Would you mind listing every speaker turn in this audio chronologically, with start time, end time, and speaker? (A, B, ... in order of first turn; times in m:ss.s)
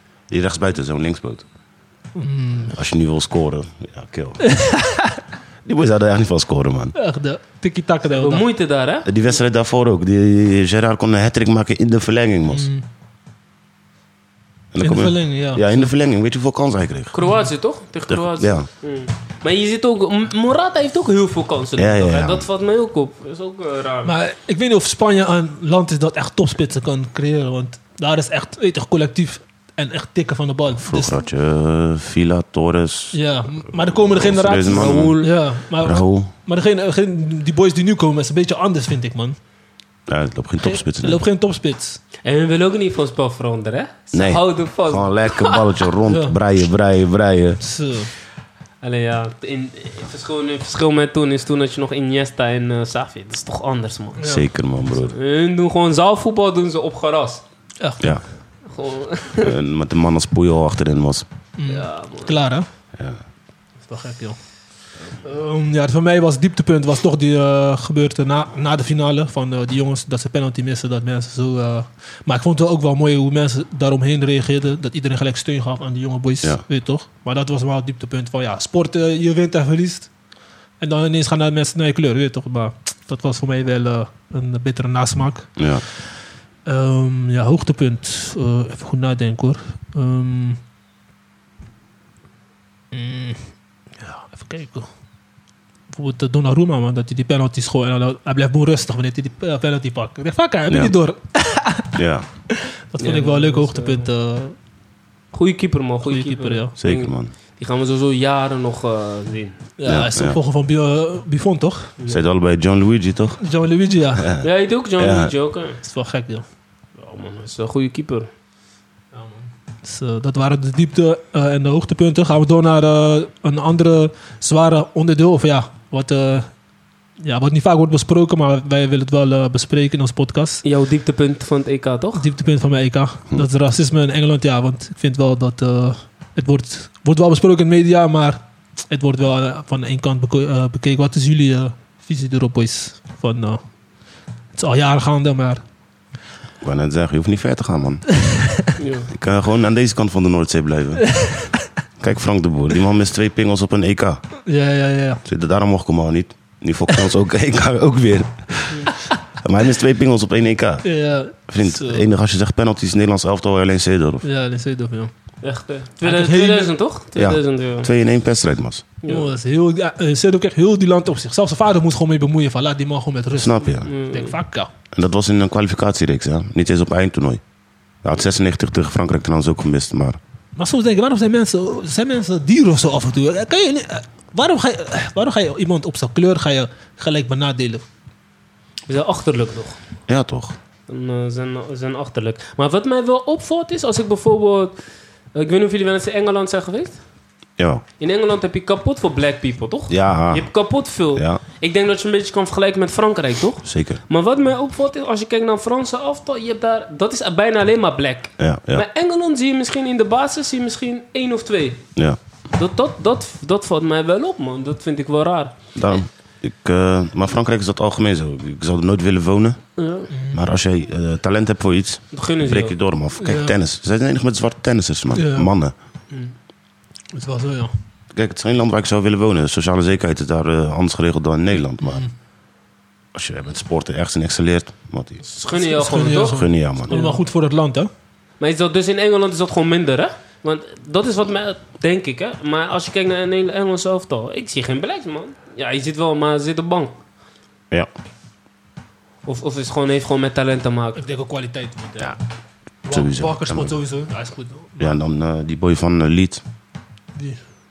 0:00.3-0:01.4 A
0:02.2-0:02.8 B
0:02.7-0:04.4 A
0:04.4-0:05.2 B
0:05.6-0:06.9 A
0:06.9-0:08.4 B
0:08.1-0:09.1 C
0:09.0-0:12.7 A
0:12.5-0:12.8 B
0:14.7-0:17.1 A
0:14.8-0:15.9 B
0:17.1-0:24.1 C
0:17.2-0:17.5 B
0:18.1-0:18.7 A
0:21.8-0:22.5 A
0:24.0-0:31.2 B
0:30.8-0:36.3 A
0:33.1-0:39.4 B
0:34.6-0:35.4 C
0:40.1-0:41.2 A
0:41.0-0:42.0 B
0:42.2-0:45.9 C
0:44.1-0:47.6 A
0:46.1-0:46.4 B
0:47.6-0:48.1 B
0:48.8-0:54.3 C
0:54.2-0:54.4 B
0:54.2-0:55.1 A
0:55.0-0:57.4 C
0:57.8-0:58.2 B
0:58.6-0:59.5 C
0:59.4-1:01.2 A
1:01.6-1:02.7 B
1:01.7-1:02.4 C
1:03.9-1:04.4 B
1:05.2-1:20.1 B
1:20.8-1:26.0 B
1:25.6-1:25.8 A
1:26.6-1:30.6 B
1:32.9-1:34.9 B
1:35.9-1:42.0 B
1:40.7-1:40.9 A
1:41.9-1:42.2 A
1:42.5-1:44.5 B
1:43.0-1:44.1 C
1:45.3-1:49.6 C
1:46.0-1:46.7 B
1:46.8-1:47.3 A
1:49.8-1:51.9 B
1:49.8-1:50.4 A
1:52.1-1:53.4 A
1:53.4-1:54.3 B
1:54.2-1:55.3 A
1:54.4-1:55.8 C
1:55.8-1:56.4 B
1:57.0-1:58.3 C
1:59.1-2:06.5 B
2:07.2-2:10.6 B
2:10.6-2:12.2 C
2:12.1-2:23.6 B
2:24.5-2:25.6 B
2:26.6-2:28.2 A
2:28.8-2:29.1 C
2:29.1-2:31.2 A
2:31.0-2:31.5 B
2:32.0-2:34.2 A
2:34.4-2:35.2 B
2:35.2-2:40.8 A
2:40.8-2:42.0 B
2:41.5-2:44.2 A
2:44.2-2:45.1 B
2:45.4-2:47.9 C
2:46.0-2:46.7 B
2:47.2-2:48.8 A
2:49.0-2:49.3 C
2:49.0-2:54.7 B
2:53.4-2:53.9 A
2:53.8-2:54.3 C
2:54.9-2:57.4 A
2:58.0-3:00.2 A
3:00.6-3:07.8 B
3:08.9-3:09.8 C
3:10.1-3:10.6 A
3:10.9-3:14.8 C
3:15.3-3:17.0 C
3:17.6-3:17.8 A
3:18.0-3:31.9 C
3:19.9-3:20.5 A
3:21.1-3:21.4 A
3:23.6-3:24.0 A
3:28.4-3:28.8 A
3:32.5-3:35.5 C
3:35.7-3:39.6 A
3:39.8-3:40.1 C
3:40.1-3:40.4 B
3:40.3-3:45.7 A
3:42.1-3:42.7 C
3:43.2-3:43.5 B
3:45.1-3:45.5 B
3:47.1-3:47.7 B
3:48.1-3:52.0 A
3:51.8-3:52.1 B
3:53.1-3:55.2 A
3:55.2-3:57.2 C
3:55.5-3:57.9 B
3:56.1-3:57.0 A
3:58.4-4:07.0 C
4:09.2-4:11.0 C
4:11.0-4:12.2 B
4:12.8-4:15.0 B
4:12.8-4:13.8 A
4:14.8-4:16.4 A
4:17.2-4:17.4 B